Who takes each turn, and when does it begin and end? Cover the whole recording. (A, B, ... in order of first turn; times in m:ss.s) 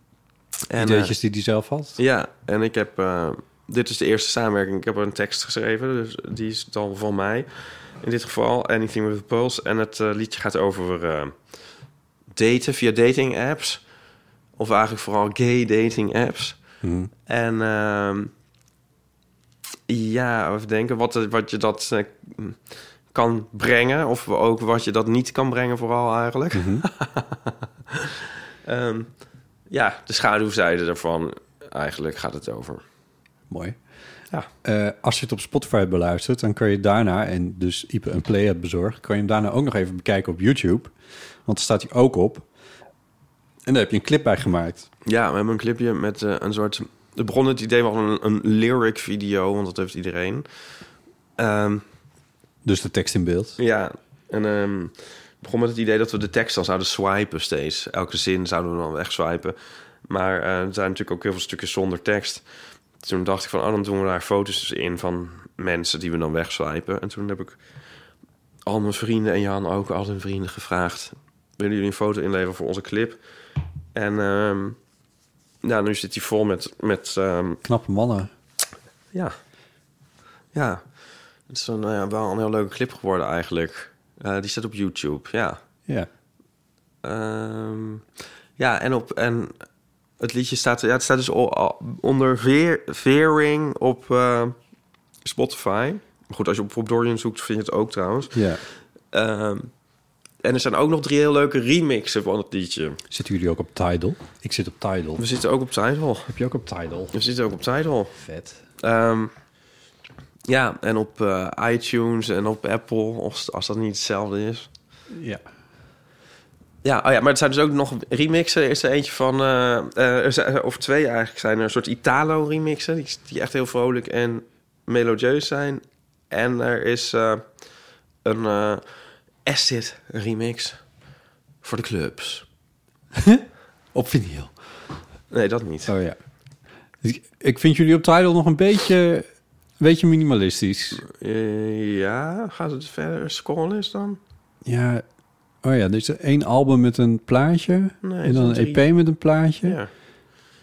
0:00.7-0:01.1 A
0:00.8-0:02.0 B
0:02.0-0:11.4 A
0:12.4-0:13.8 A
0:14.6-0:16.6 A
0:16.8-0:17.1 B
0:17.3-0:18.3 A
0:19.9-0:28.0 A
0:26.5-0:26.8 B
0:28.6-0:29.1 A
0:29.7-0:32.8 A
0:33.5-0:33.8 B
0:34.6-0:40.9 B
0:41.4-0:42.4 B
0:43.6-0:44.9 B
0:45.0-0:50.4 A
0:51.4-0:51.8 A
0:52.6-0:53.6 B
0:53.6-0:59.6 A
1:00.1-1:02.4 A
1:03.0-1:07.6 A
1:08.6-1:13.2 A
1:13.9-1:14.8 A
1:15.6-1:17.6 A
1:17.6-1:18.3 B
1:20.5-1:20.8 A
1:21.5-1:25.6 A
1:27.0-1:28.0 A
1:28.6-1:29.5 A
1:30.2-1:34.6 A
1:35.2-1:38.4 A
1:38.3-1:38.6 B
1:39.1-1:39.7 A
1:40.4-1:43.0 A
1:43.1-1:45.2 B
1:45.2-1:46.3 A
1:46.3-1:47.2 B
1:47.1-1:48.2 A
1:48.2-1:48.6 B
1:48.8-1:49.3 A
1:50.5-1:54.7 A
1:55.1-1:55.4 B
1:56.8-2:07.4 A
2:08.2-2:08.8 A
2:09.4-2:10.8 A
2:11.6-2:12.4 A
2:13.2-2:14.5 B
2:15.3-2:15.9 A
2:15.9-2:16.2 B
2:17.0-2:19.3 B
2:19.8-2:21.0 B
2:21.0-2:24.2 A
2:24.6-2:25.0 B
2:25.6-2:29.8 B
2:28.0-2:28.8 A
2:29.6-2:29.9 A